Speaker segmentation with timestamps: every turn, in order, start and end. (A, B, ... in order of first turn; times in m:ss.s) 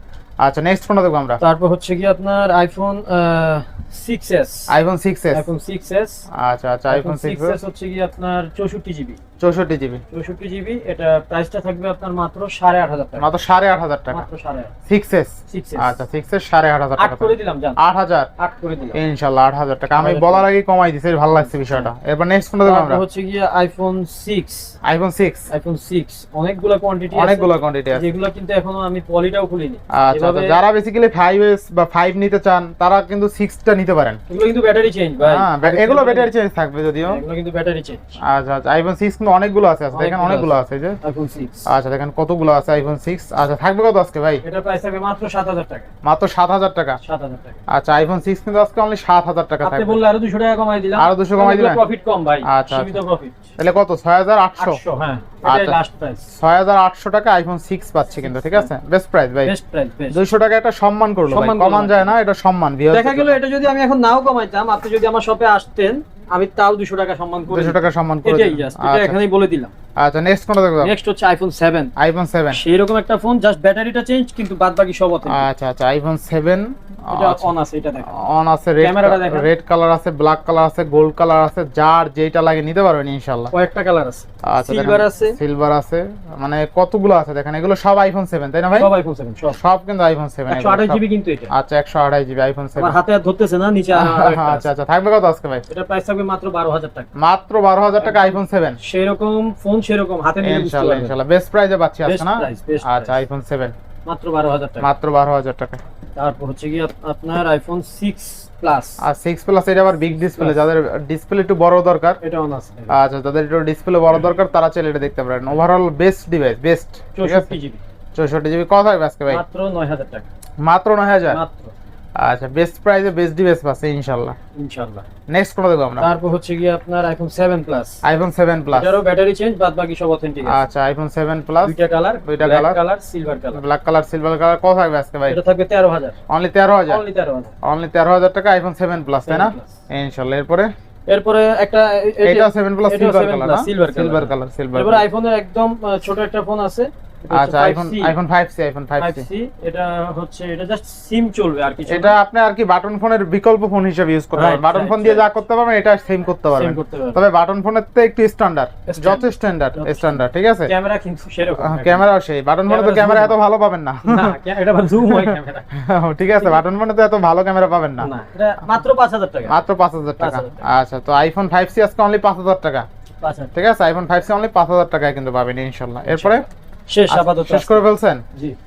0:00.4-0:01.4 A
0:01.4-0:04.7 B
0:04.7-0:05.5 A
0:05.3-0:06.3 B
0:06.3-0:07.6 A
0:06.9-0:09.2 B
0:09.4-0:10.0 A
0:10.1-0:13.3 B
0:13.2-0:14.2 A
0:14.1-0:14.7 B
0:14.9-0:18.3 A
0:15.5-0:16.0 B
0:17.0-0:17.8 B
0:18.4-0:19.0 B
0:18.9-0:23.0 A
0:20.0-0:20.5 B
0:21.3-0:21.9 B
0:22.6-0:24.7 B
0:24.8-0:25.5 A
0:25.5-0:30.6 B
0:27.1-0:28.1 A
0:29.9-0:34.2 A
0:34.3-0:36.3 B
0:35.2-0:37.2 A
0:37.0-0:38.2 B
0:38.2-0:41.0 A
0:39.9-0:41.7 B
0:41.7-0:44.4 A
0:44.4-0:45.9 B
0:46.0-0:47.0 A
0:47.0-0:47.6 B
0:47.7-0:50.0 A
0:49.6-0:53.5 B
0:51.0-0:51.8 A
0:52.4-0:53.0 A
0:53.6-0:54.8 A
0:54.6-0:56.3 B
0:55.4-0:55.8 A
0:56.3-0:59.5 A
0:58.2-0:58.7 B
0:59.4-1:00.2 B
1:00.1-1:03.4 A
1:01.3-1:02.2 B
1:02.9-1:09.7 B
1:07.5-1:09.2 A
1:10.0-1:10.9 A
1:10.8-1:11.9 B
1:12.0-1:12.6 A
1:12.5-1:15.5 B
1:15.3-1:17.5 A
1:17.1-1:18.2 B
1:18.1-1:23.5 A
1:18.8-1:19.5 B
1:23.5-1:25.4 B
1:24.4-1:28.9 A
1:28.7-1:29.6 B
1:29.5-1:33.0 A
1:30.5-1:31.5 B
1:32.8-1:34.7 B
1:33.9-1:35.6 A
1:35.7-1:37.1 B
1:37.2-1:38.8 A
1:38.0-1:38.3 B
1:38.8-1:41.2 B
1:40.4-1:43.8 A
1:42.0-1:43.2 B
1:44.1-1:44.9 B
1:44.8-1:45.8 A
1:46.2-1:49.0 B
1:49.0-1:52.2 A
1:52.2-1:53.0 B
1:52.9-1:57.5 A
1:57.2-1:57.8 B
1:58.2-1:59.4 A
1:59.3-2:00.3 B
2:00.6-2:01.4 A
2:01.3-2:01.7 B
2:02.2-2:04.4 A
2:04.6-2:05.1 B
2:05.3-2:06.1 A
2:06.0-2:08.0 B
2:08.0-2:09.0 A
2:08.7-2:10.6 B
2:10.5-2:12.8 A
2:11.6-2:13.6 B
2:13.5-2:15.4 A
2:15.3-2:16.2 B
2:16.3-2:17.0 A
2:16.9-2:17.5 B
2:17.6-2:20.7 A
2:19.2-2:19.8 B
2:21.1-2:28.2 B
2:22.2-2:25.0 A
2:27.3-2:29.3 A
2:29.0-2:32.2 B
2:31.9-2:40.7 A
2:34.3-2:35.4 B
2:36.5-2:37.2 B
2:38.9-2:42.1 B
2:41.6-2:44.4 A
2:42.6-2:43.4 B
2:44.0-2:45.8 B
2:45.1-2:48.1 A
2:46.4-2:46.6 B
2:48.0-2:49.6 B
2:49.5-2:52.9 A
2:50.2-2:50.6 B
2:53.2-2:53.5 B
2:53.5-2:56.5 A
2:56.0-2:58.6 B
2:57.1-2:58.2 A